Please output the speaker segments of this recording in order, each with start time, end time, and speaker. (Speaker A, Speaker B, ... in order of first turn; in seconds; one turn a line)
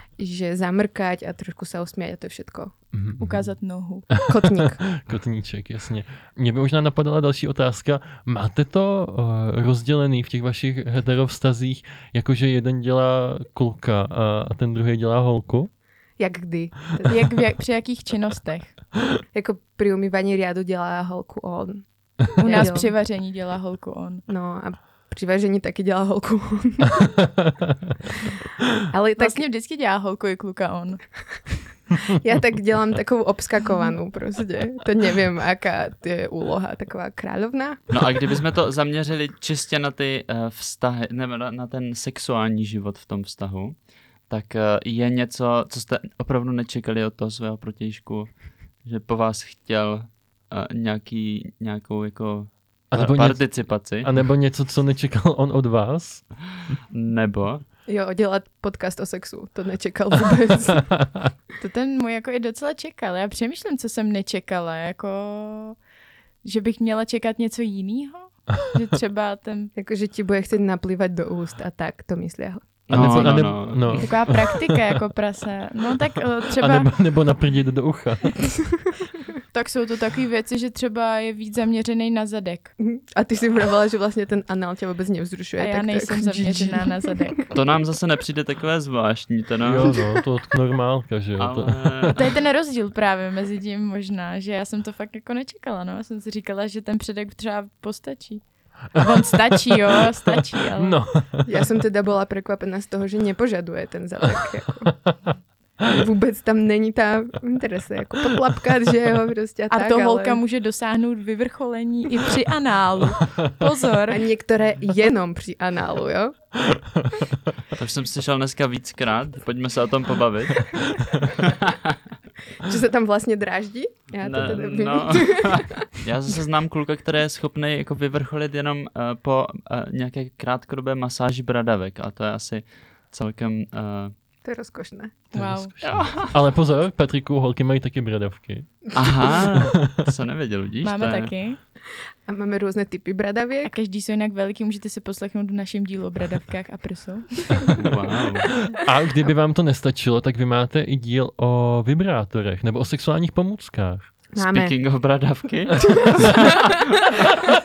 Speaker A: 0.2-2.8
Speaker B: 2.9-3.5
Speaker C: 3.2-4.1
Speaker B: 4.1-15.7
Speaker A: 4.3-4.8
Speaker A: 16.2-17.2
Speaker C: 17.1-18.7
Speaker A: 19.3-22.9
Speaker C: 22.4-24.2
Speaker A: 24.3-27.2
Speaker A: 28.9-29.4
Speaker C: 29.2-31.0
Speaker A: 32.0-37.9
Speaker D: 37.9-54.1
Speaker B: 52.9-56.2
Speaker D: 56.9-57.6
Speaker A: 57.9-61.0
Speaker C: 61.6-65.8
Speaker C: 66.4-69.7
Speaker A: 69.8-73.4
Speaker D: 72.9-74.1
Speaker B: 72.9-75.0
Speaker C: 73.9-76.9
Speaker B: 76.6-78.5
Speaker C: 79.5-82.7
Speaker A: 82.8-87.5
Speaker C: 85.6-87.5
Speaker D: 87.5-90.0
Speaker B: 89.6-92.2
Speaker D: 91.4-92.2
Speaker C: 92.2-101.0
Speaker B: 99.0-99.8
Speaker B: 100.6-101.5
Speaker A: 101.5-105.1
Speaker A: 105.8-110.4
Speaker C: 109.7-114.3
Speaker A: 114.1-116.3
Speaker B: 116.7-117.3
Speaker D: 117.7-122.0
Speaker A: 122.6-125.8
Speaker D: 124.2-134.1
Speaker A: 134.4-135.2
Speaker C: 135.3-135.7
Speaker B: 135.3-140.0
Speaker D: 135.8-136.3
Speaker D: 138.9-141.3
Speaker C: 140.8-141.6
Speaker A: 142.3-143.7
Speaker C: 143.6-147.6
Speaker D: 147.8-148.5
Speaker B: 148.7-154.1
Speaker A: 154.4-154.8
Speaker D: 154.4-157.1
Speaker A: 156.0-156.8